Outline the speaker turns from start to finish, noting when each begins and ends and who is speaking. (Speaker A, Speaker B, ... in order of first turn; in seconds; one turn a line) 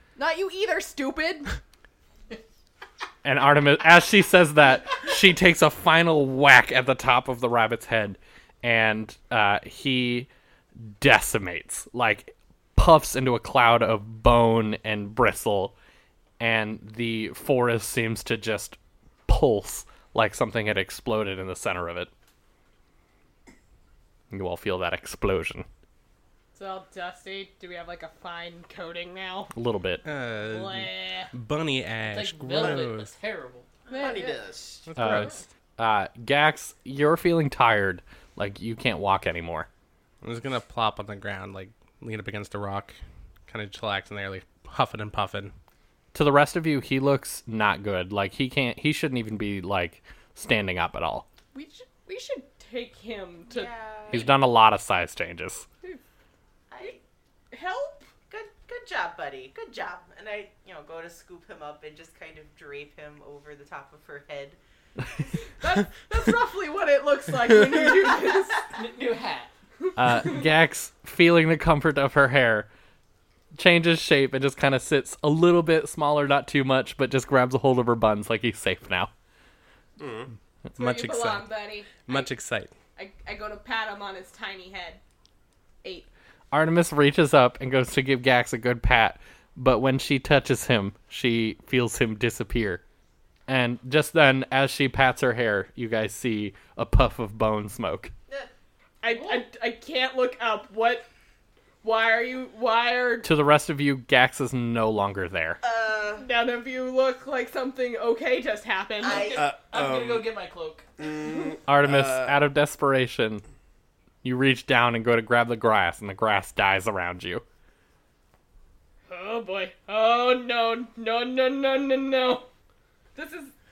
Speaker A: 0.1-1.6
Speaker B: 3.2-15.7
Speaker B: 16.4-18.8
Speaker B: 19.3-22.1
Speaker B: 24.3-25.7
Speaker A: 26.5-29.5
Speaker B: 29.5-30.0
Speaker C: 30.0-33.1
Speaker A: 30.4-31.3
Speaker D: 32.1-33.6
Speaker A: 33.9-34.4
Speaker E: 33.9-35.0
Speaker C: 34.9-35.5
Speaker B: 35.0-39.7
Speaker C: 40.2-43.0
Speaker C: 43.5-45.5
Speaker B: 46.1-51.2
Speaker A: 51.5-54.3
Speaker F: 53.5-54.3
Speaker B: 54.1-55.6
Speaker F: 56.7-57.0
Speaker A: 57.5-58.1
Speaker F: 58.3-64.6
Speaker A: 65.6-68.6
Speaker D: 68.7-69.5
Speaker B: 70.0-72.7
Speaker B: 73.5-79.1
Speaker E: 80.0-80.3
Speaker C: 80.7-82.7
Speaker A: 80.8-82.3
Speaker A: 83.0-85.0
Speaker A: 85.8-86.1
Speaker B: 86.5-92.8
Speaker B: 93.5-98.1
Speaker A: 99.0-101.1
Speaker A: 101.8-103.3
Speaker B: 103.2-105.6
Speaker F: 105.6-106.3
Speaker A: 106.2-109.5
Speaker F: 109.0-109.5
Speaker E: 109.1-110.3
Speaker D: 109.7-110.8
Speaker E: 111.0-112.4
Speaker B: 111.7-113.4
Speaker B: 114.2-117.4
Speaker A: 119.1-122.5
Speaker A: 123.1-123.5